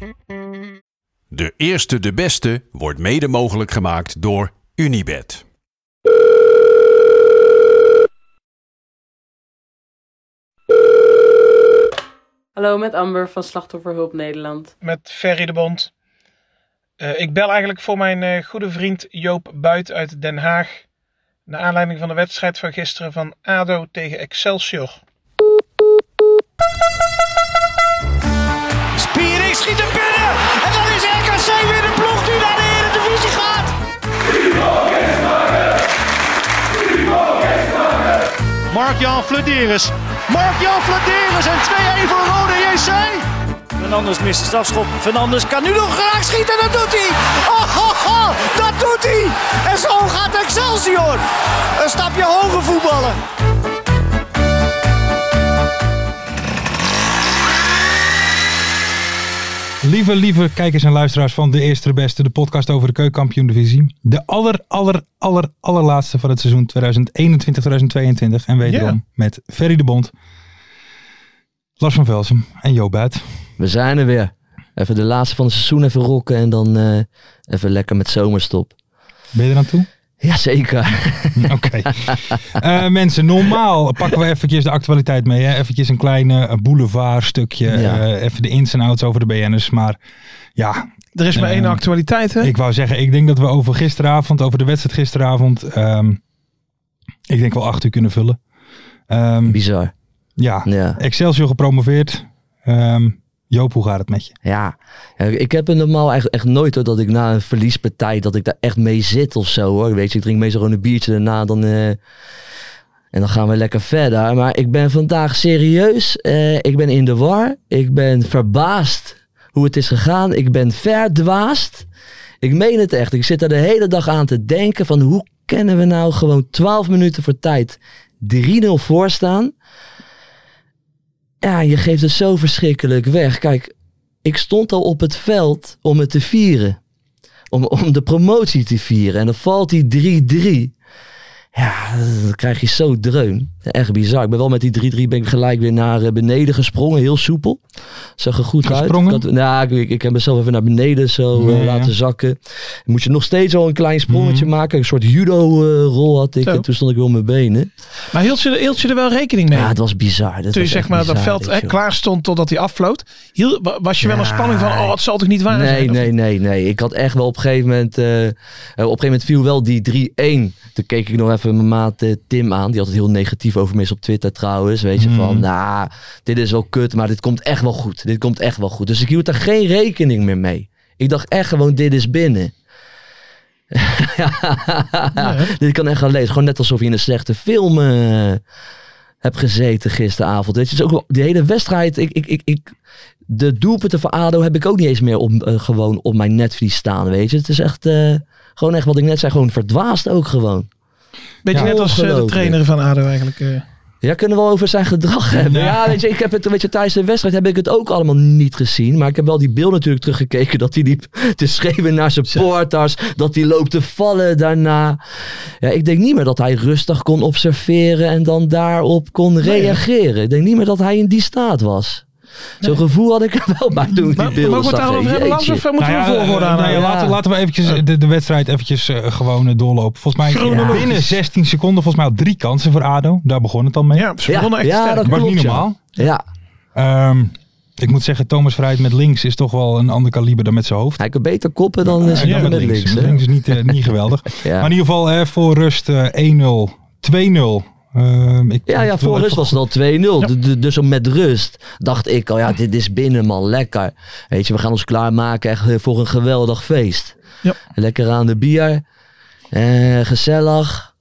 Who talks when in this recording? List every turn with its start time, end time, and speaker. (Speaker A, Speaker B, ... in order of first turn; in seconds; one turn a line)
Speaker A: 1.3-5.4
Speaker B: 12.6-14.7
Speaker C: 14.8-15.9
Speaker C: 17.0-20.8
Speaker C: 21.5-25.0
Speaker D: 28.9-33.7
Speaker D: 38.7-51.2
Speaker D: 51.7-53.2
Speaker E: 59.8-70.1
Speaker C: 68.6-69.0
Speaker E: 71.8-73.2
Speaker F: 73.6-78.7
Speaker E: 79.3-79.9
Speaker F: 80.2-81.5
Speaker E: 81.4-90.0
Speaker F: 87.7-88.0
Speaker E: 90.5-91.8
Speaker C: 91.1-92.5
Speaker E: 92.4-96.2
Speaker E: 97.3-98.4
Speaker E: 99.1-99.6
Speaker F: 99.5-99.9
Speaker E: 100.4-104.3
Speaker F: 100.6-101.0
Speaker F: 104.4-112.0
Speaker F: 113.1-121.9
Speaker F: 122.4-129.5
Speaker F: 131.4-133.7
Speaker F: 134.2-136.8
Speaker F: 137.5-140.7
Speaker F: 141.5-147.6
Speaker F: 148.2-157.7
Speaker E: 148.6-149.2
Speaker E: 151.3-151.9
Speaker E: 154.1-154.5
Speaker C: 158.1-159.7
Speaker F: 159.5-161.8
Speaker C: 160.5-166.1
Speaker F: 164.0-164.9
Speaker F: 165.5-182.5
Speaker E: 175.0-175.4
Speaker F: 183.7-188.4
Speaker C: 185.2-185.5
Speaker F: 189.2-192.7
Speaker F: 193.3-200.7
Speaker C: 201.4-203.6
Speaker F: 201.5-202.6
Speaker F: 204.0-215.0
Speaker E: 205.3-206.0
Speaker F: 215.6-222.0
Speaker C: 219.4-219.8
Speaker F: 222.6-225.6
Speaker C: 224.2-226.9
Speaker E: 225.8-234.1
Speaker F: 226.7-227.1
Speaker C: 230.3-231.1
Speaker F: 230.4-230.8
Speaker C: 233.9-235.2
Speaker F: 234.3-236.2
Speaker E: 235.0-235.8
Speaker E: 236.7-241.0
Speaker F: 241.0-243.7
Speaker E: 241.8-249.6
Speaker C: 242.2-242.6
Speaker F: 244.3-244.7
Speaker F: 248.7-257.1
Speaker F: 257.7-258.8
Speaker F: 259.5-260.9